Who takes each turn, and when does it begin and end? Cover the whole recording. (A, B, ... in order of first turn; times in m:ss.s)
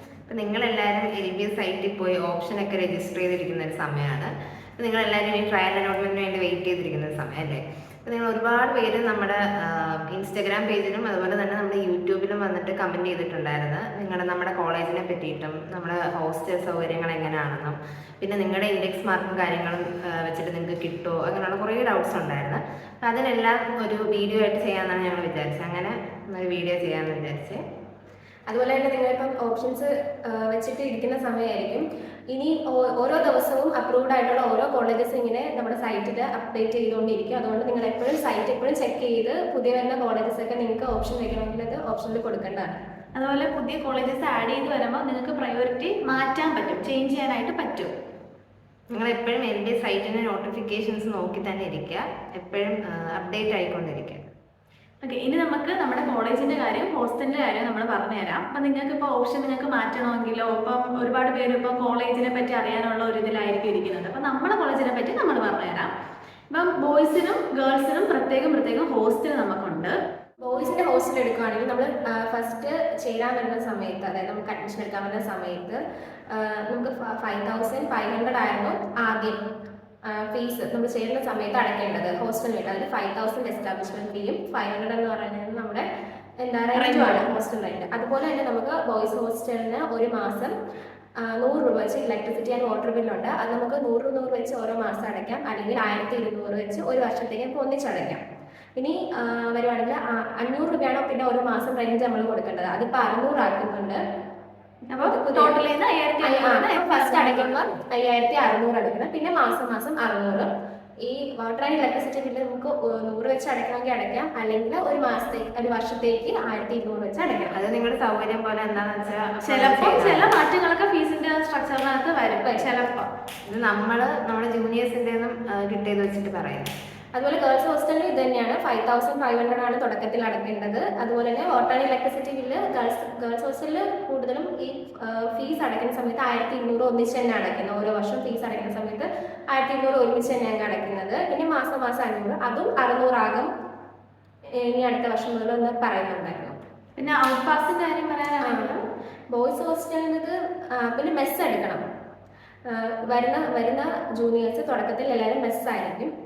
0:00.3-0:27.6 A
0:28.5-0:42.8 B
0:43.2-0:47.9 C
0:48.9-0:54.2 A
0:55.0-1:05.9 C
1:06.5-1:10.0 C
1:10.4-1:19.4 B
1:20.0-1:25.9 B
1:26.4-1:30.6 B
1:26.8-1:27.3 C
1:31.2-1:38.2 B
1:38.8-1:44.0 B
1:44.9-1:47.5 C
1:45.0-1:45.6 B
1:46.2-1:50.5 B
1:51.0-1:57.6 B
1:57.6-2:00.3 A
1:59.4-2:03.1 C
2:02.4-2:02.7 B
2:03.5-2:06.7 A
2:07.1-2:23.5 B
2:24.5-2:26.6 B
2:27.0-2:28.8 C
2:28.4-2:31.8 B
2:32.7-2:36.1 B